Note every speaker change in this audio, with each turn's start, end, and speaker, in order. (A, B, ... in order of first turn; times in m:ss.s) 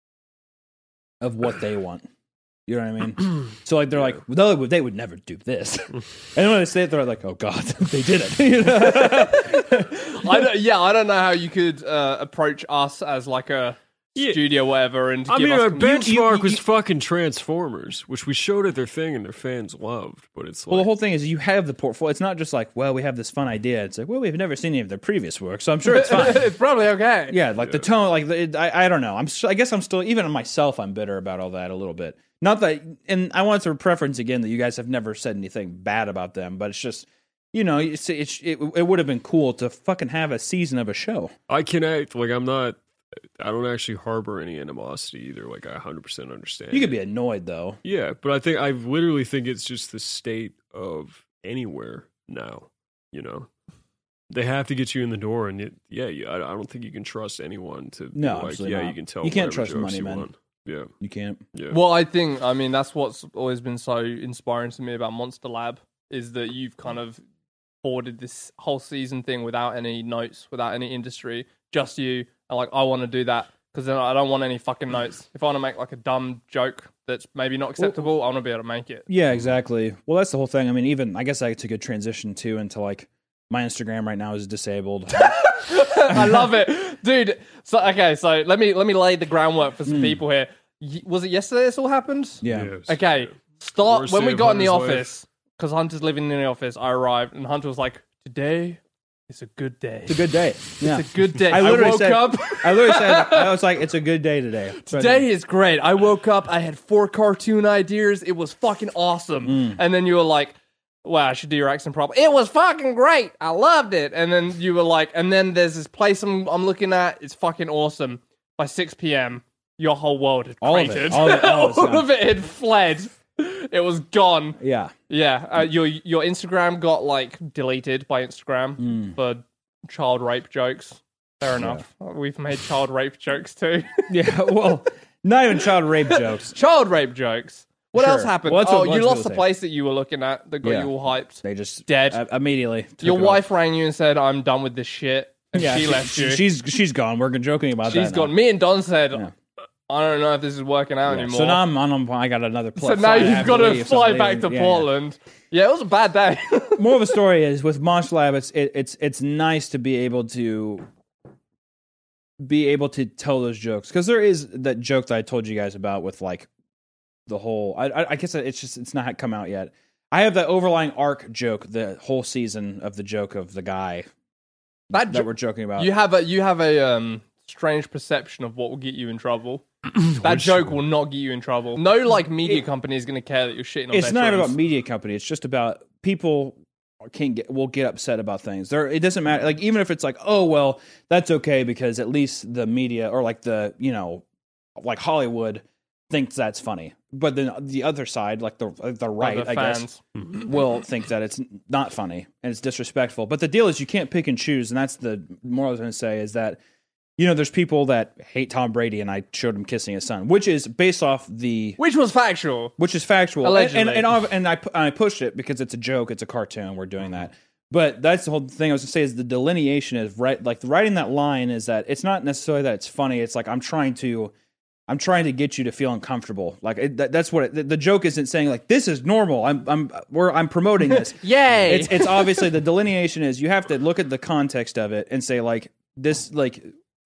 0:01.2-0:02.0 A
0:02.7-0:10.5 A
0:08.9-0:09.4 B
0:10.0-0:16.1 B
0:14.1-0:14.5 C
0:15.3-0:20.9 C
0:15.8-0:16.6 A
0:20.7-0:26.5 A
0:25.8-0:27.4 B
0:27.3-0:41.3 A
0:41.5-0:42.8 C
0:43.4-0:46.9 C
0:46.7-0:47.8 A
0:47.8-0:53.5 C
0:54.3-1:00.9 C
0:58.1-1:00.3 A
1:01.0-1:01.4 A
1:01.5-1:01.8 C
1:01.7-1:07.2 B
1:07.8-1:19.1 B
1:19.1-1:25.5 A
1:25.1-1:43.5 B
1:26.1-1:26.5 A
1:29.8-1:30.2 A
1:32.4-1:32.7 A
1:32.5-1:35.1 C
1:40.1-1:45.3 A
1:44.8-2:04.6 B
1:49.4-1:49.8 A
2:00.6-2:02.1 A
2:04.6-2:04.9 A
2:05.1-2:14.1 B
2:08.8-2:09.2 A
2:11.6-2:11.8 A
2:14.1-2:16.5 A
2:16.1-2:22.2 B
2:17.9-2:19.5 A
2:20.6-2:23.5 A
2:23.0-2:26.4 B
2:25.5-2:28.3 A
2:27.8-2:29.3 B
2:29.9-2:31.6 B
2:31.1-2:34.9 A
2:32.8-2:37.0 B
2:36.8-2:40.9 A
2:42.4-2:46.5 A
2:47.3-2:54.1 A
2:54.9-3:04.6 B
2:54.9-2:55.9 A
3:00.1-3:00.7 C
3:03.9-3:14.2 A
3:14.8-3:26.6 A
3:19.2-3:20.0 B
3:27.2-3:31.8 A
3:31.8-3:32.8 B
3:32.8-3:44.3 A
3:33.4-3:34.1 B
3:44.9-3:56.7 A
3:50.9-3:52.5 B